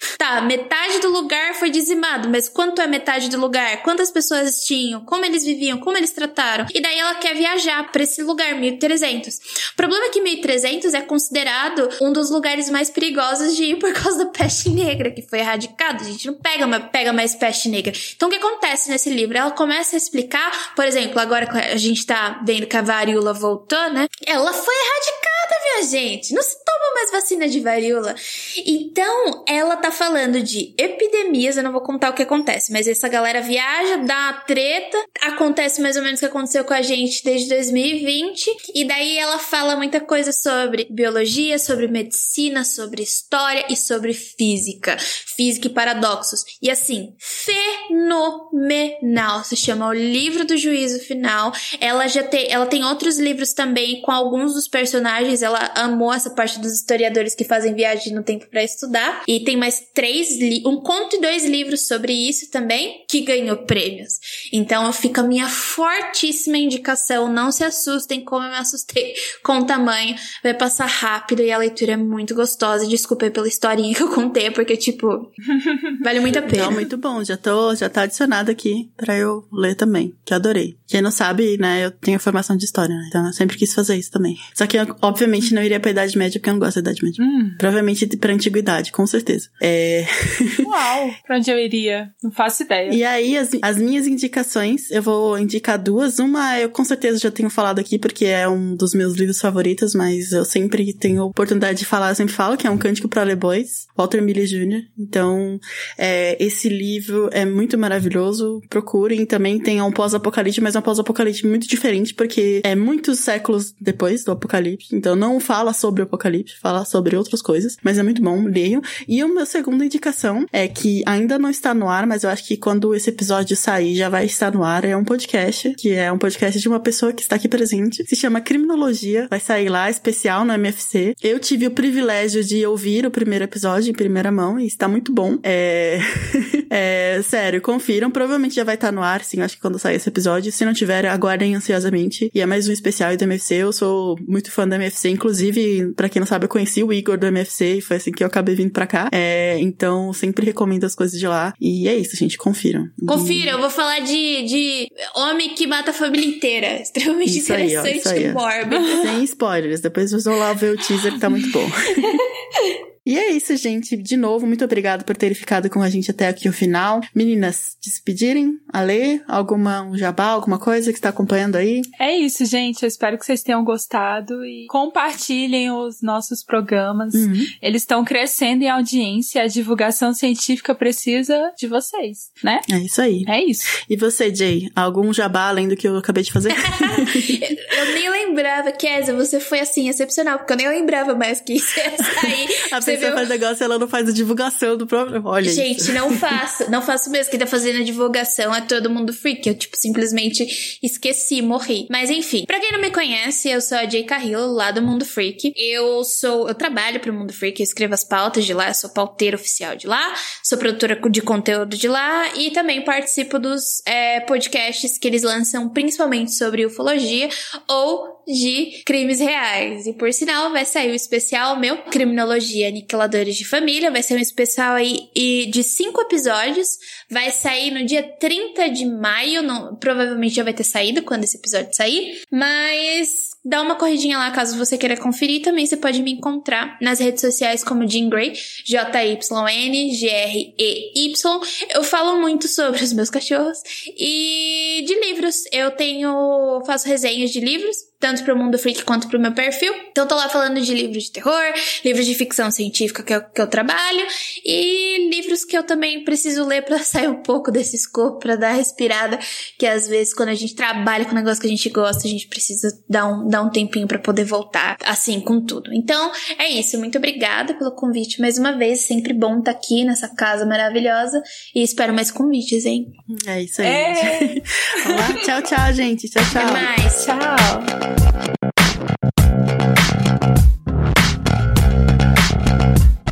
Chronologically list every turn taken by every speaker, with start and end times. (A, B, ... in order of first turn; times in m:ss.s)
0:00.2-1:15.3 A
1:16.0-1:16.8 A
1:16.4-1:30.6 B
1:27.2-1:27.6 C
1:30.6-1:33.0 C
1:32.9-2:33.6 B
2:33.1-2:39.1 A
2:37.3-2:42.2 B
2:43.0-2:51.9 B
2:52.0-3:02.7 C
2:57.1-2:57.5 B
3:02.7-3:07.4 B
3:03.3-3:03.7 C
3:06.7-3:13.3 A
3:12.2-3:16.2 B
3:15.4-4:32.9 A
4:33.1-4:36.7 B
4:33.6-4:35.2 C
4:36.4-4:37.1 A
4:36.5-4:37.7 C